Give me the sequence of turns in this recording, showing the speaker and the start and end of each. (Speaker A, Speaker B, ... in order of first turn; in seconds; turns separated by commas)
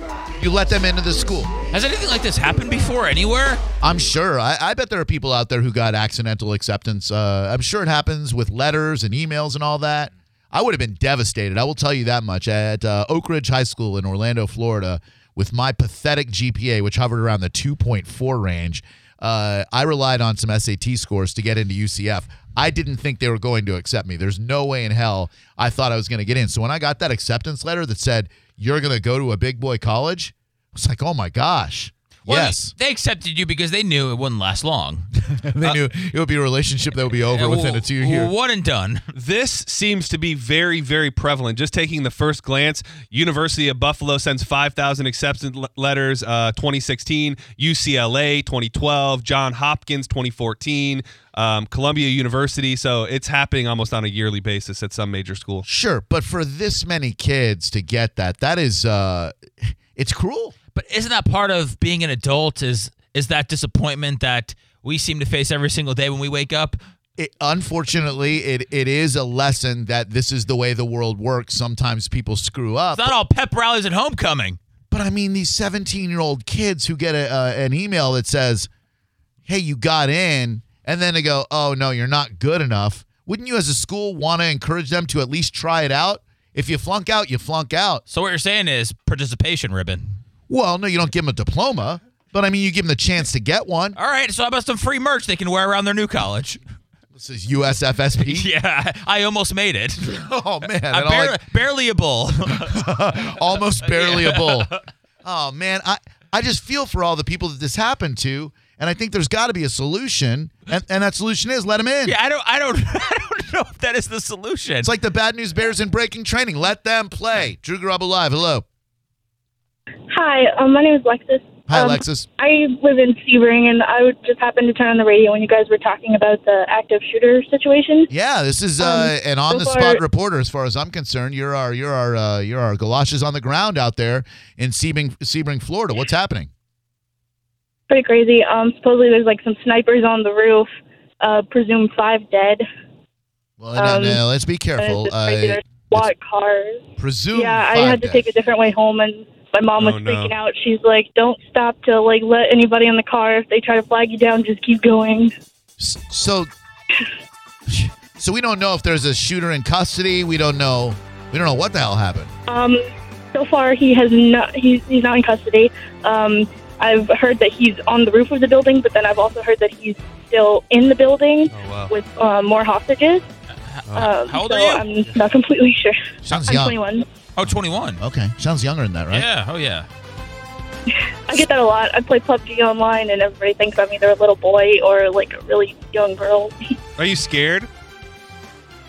Speaker A: 0.4-1.5, Speaker B: 1.7-3.6, Speaker A: 3.8-32.7, Speaker B: 32.3-35.1, Speaker A: 35.3-38.3, Speaker B: 37.3-39.0, Speaker C: 39.1-55.7, Speaker A: 55.6-60.5, Speaker B: 60.7-66.8, Speaker A: 67.2-73.1, Speaker B: 72.9-74.6, Speaker A: 74.9-78.7, Speaker A: 79.5-88.0, Speaker B: 88.1-90.1, Speaker A: 90.5-94.0, Speaker B: 94.0-96.6, Speaker A: 97.1-98.5, Speaker B: 98.2-100.1, Speaker A: 100.0-101.4, Speaker B: 100.9-102.8, Speaker A: 102.5-104.7, Speaker B: 103.9-104.8, Speaker A: 105.2-112.2, Speaker B: 112.0-114.9, Speaker A: 114.8-118.7, Speaker D: 120.1-128.1, Speaker A: 121.7-122.3, Speaker A: 128.1-136.5, Speaker D: 128.8-130.0, Speaker D: 137.9-140.7, Speaker D: 141.2-142.6, Speaker A: 143.6-146.1, Speaker D: 143.8-144.2, Speaker D: 144.8-155.3, Speaker A: 147.0-148.3, Speaker C: 149.8-150.3, Speaker A: 155.8-156.5, Speaker A: 157.7-162.3, Speaker D: 162.5-173.2, Speaker C: 171.5-171.9, Speaker B: 173.7-174.8, Speaker D: 174.0-177.1, Speaker A: 176.2-176.8, Speaker B: 177.4-178.0, Speaker A: 178.0-179.3, Speaker B: 179.1-179.9, Speaker D: 181.3-186.8, Speaker C: 187.0-187.7